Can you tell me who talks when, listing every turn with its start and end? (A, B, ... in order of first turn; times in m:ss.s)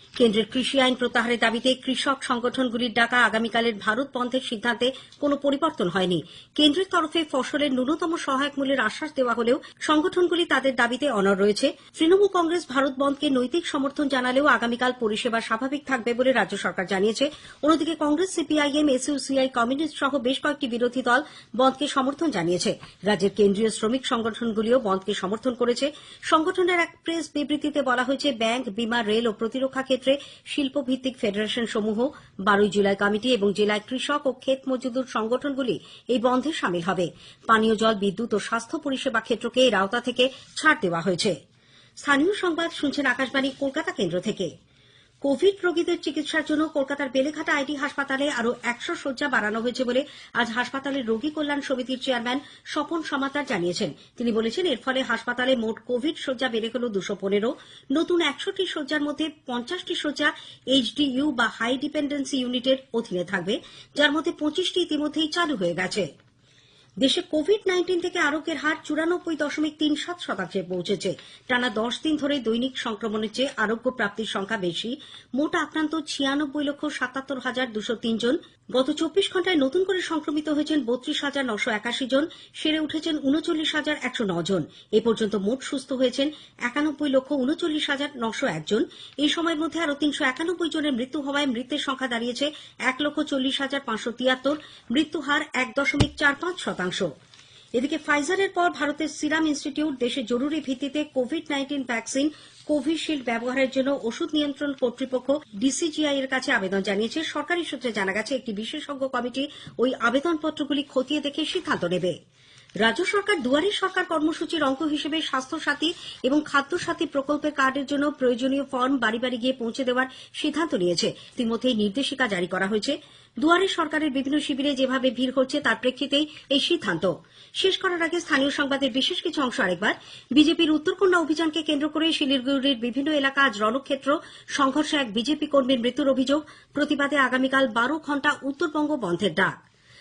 0:00.2-0:41.3 A
0:42.0-0:44.5 A
0:45.2-1:06.0 A
1:07.0-1:37.1 A
1:37.8-1:52.1 A
1:52.8-2:19.6 A